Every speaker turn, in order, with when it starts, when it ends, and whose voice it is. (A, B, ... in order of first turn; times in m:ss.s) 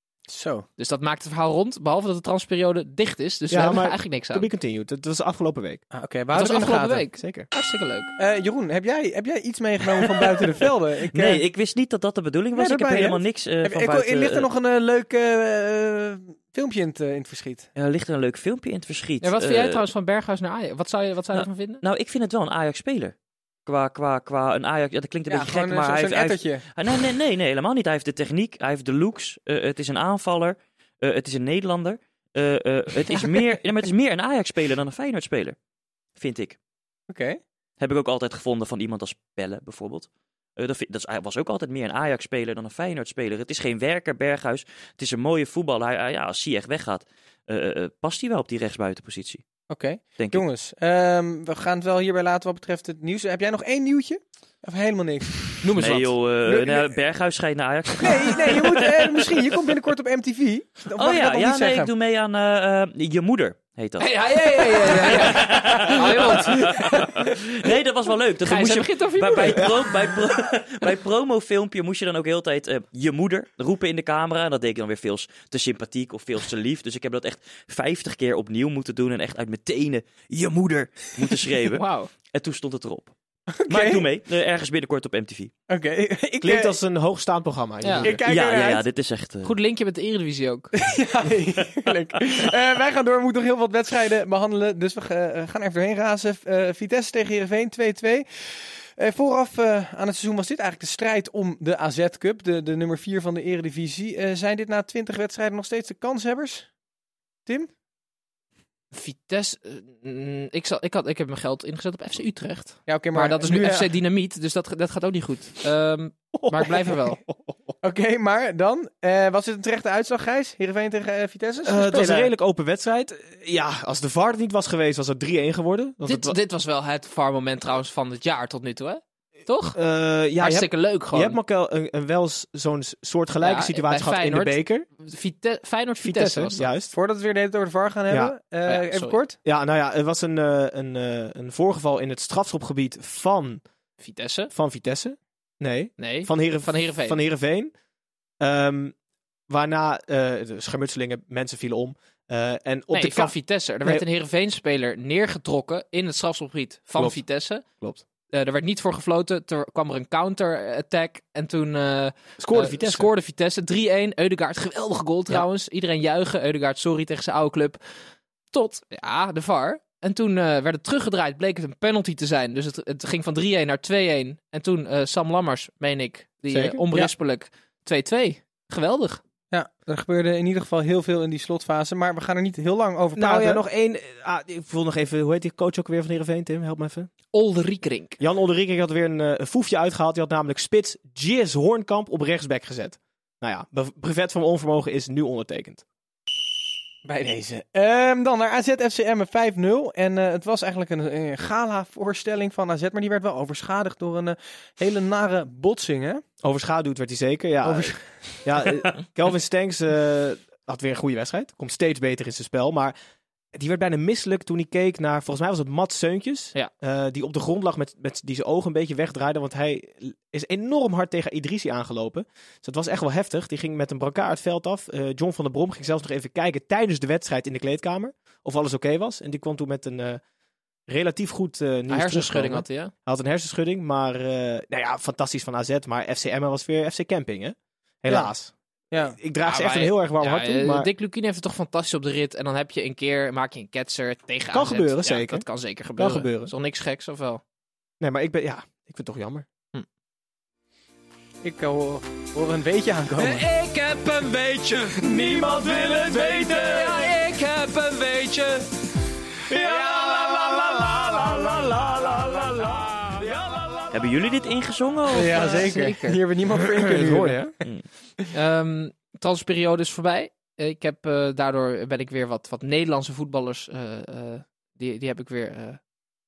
0:00.3-0:00.7 A
0:00.8-0:04.5 B
0:03.5-0:05.8 C
0:05.9-0:07.0 A
0:06.3-0:08.1 B
0:07.1-0:07.5 C
0:08.2-0:11.4 A
0:11.1-0:14.5 D
0:12.6-0:17.7 A
0:17.8-0:19.8 D
0:19.2-0:21.8 B
0:21.4-0:23.1 D
0:23.6-0:35.6 D
0:25.3-0:26.6 A
0:36.2-0:36.6 D
0:37.1-0:37.4 A
0:37.8-0:49.4 D
0:49.7-0:55.6 A
0:50.2-0:50.4 D
0:55.6-0:56.2 B
0:55.8-0:59.3 D
0:56.5-0:56.9 A
0:58.0-1:01.9 A
1:01.0-1:23.1 D
1:04.0-1:06.8 B
1:08.4-1:09.7 B
1:21.7-1:22.1 B
1:23.7-1:24.0 A
1:23.7-1:25.5 D
1:25.7-1:26.7 A
1:26.4-1:28.2 C
1:27.8-1:28.1 B
1:28.0-1:28.8 A
1:28.2-1:29.5 D
1:29.4-1:30.7 B
1:30.8-1:46.7 A
1:48.9-1:57.2 B
1:52.9-1:53.9 A
1:56.3-1:57.5 C
1:57.8-2:02.3 A
2:01.6-2:06.4 C
2:06.0-2:09.8 B
2:09.7-2:14.9 C
2:10.4-2:11.4 B
2:13.4-2:16.7 B
2:16.0-2:16.9 C
2:16.9-2:19.4 A
2:18.7-2:19.2 B
2:19.4-2:23.6 C
2:24.0-2:24.5 B
2:24.5-2:27.7 C
2:26.0-2:27.2 B
2:28.4-2:28.9 C
2:29.5-2:34.0 C
2:32.9-2:37.6 B
2:36.9-2:38.0 C
2:38.3-2:47.8 B
2:42.4-2:43.1 C
2:48.5-2:59.2 B
2:56.5-2:56.8 C
2:59.5-3:03.6 A
3:03.2-3:07.1 C
3:07.3-3:08.2 B
3:08.2-3:15.8 C
3:17.0-3:26.2 A
3:26.4-3:32.9 C
3:27.6-3:28.0 A
3:33.5-3:50.2 C
3:50.9-4:00.9 C
3:51.9-3:52.9 B
3:58.9-3:59.2 A
3:59.4-4:07.4 B
4:04.5-4:05.4 C
4:06.0-4:06.5 C
4:08.0-4:09.5 C
4:11.4-4:13.4 A
4:13.2-4:18.6 B
4:15.2-4:16.9 E
4:19.6-4:20.7 B
4:19.6-4:23.6 E
4:23.9-4:25.6 D
4:25.1-4:27.5 A
4:25.3-4:26.2 B
4:26.6-4:27.5 C
4:28.3-4:35.8 B